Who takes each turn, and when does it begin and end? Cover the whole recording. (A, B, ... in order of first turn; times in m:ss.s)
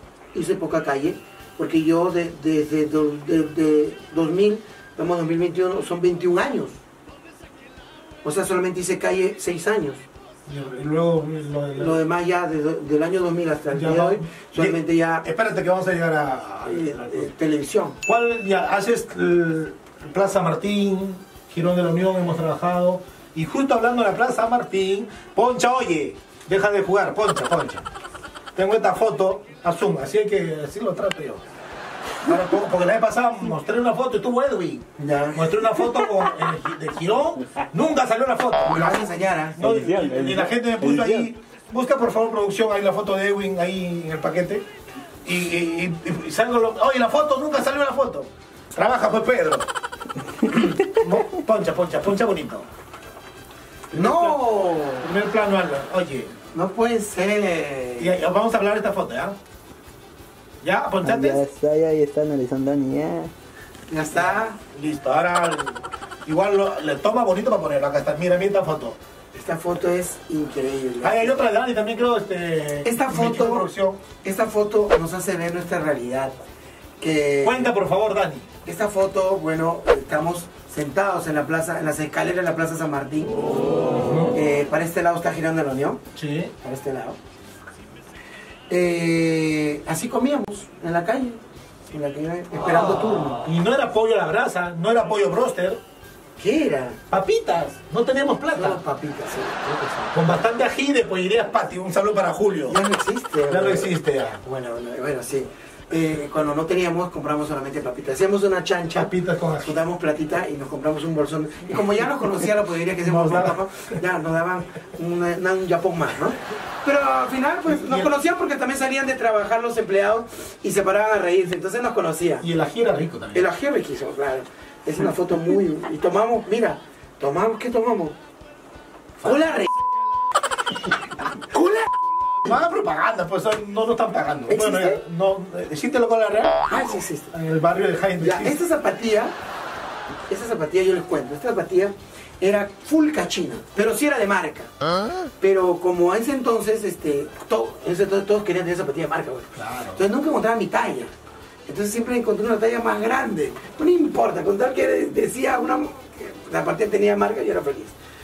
0:00.3-0:06.8 A
0:08.2-0:10.0 A
0:10.4-0:12.0 B
0:11.8-0:15.3 A
0:13.7-0:17.3 B
0:16.6-0:18.0 A
0:18.0-0:27.9 B
0:28.5-0:31.4 B
0:32.2-0:44.7 B
0:35.0-0:35.5 A
0:38.6-0:39.7 A
0:45.2-0:49.7 B
0:50.4-0:52.7 B
0:53.9-0:54.4 B
0:53.9-0:55.1 A
0:55.0-0:56.3 B
0:56.5-0:58.2 A
0:58.0-0:59.4 B
1:00.6-1:01.4 B
1:01.1-1:03.3 C
1:03.9-1:04.6 A
1:04.1-1:09.0 B
1:09.3-1:11.3 A
1:11.0-1:14.0 B
1:12.8-1:13.7 A
1:14.2-1:16.4 A
1:17.0-1:17.7 A
1:17.4-1:18.5 B
1:18.6-1:23.4 A
1:23.9-1:24.4 B
1:24.3-1:26.0 A
1:26.2-1:26.5 B
1:26.6-1:27.2 A
1:28.7-1:31.4 A
1:31.9-1:33.4 A
1:33.4-1:35.8 B
1:36.4-1:37.0 A
1:37.1-1:38.8 B
1:38.5-1:40.2 A
1:40.1-1:42.8 B
1:42.7-2:02.4 A
1:43.5-1:44.4 B
1:48.9-1:49.8 B
1:51.9-1:52.2 B
1:53.0-1:53.9 B
1:57.7-1:58.1 B
2:02.4-2:03.5 B
2:03.3-2:08.2 A
2:09.2-2:09.7 A
2:11.4-2:11.9 A
2:12.4-2:18.6 B
2:14.5-2:15.0 A
2:16.7-2:17.3 A
2:18.2-2:19.4 A
2:20.3-2:24.7 A
2:25.4-2:31.1 A
2:29.5-2:30.0 B
2:31.7-2:38.0 A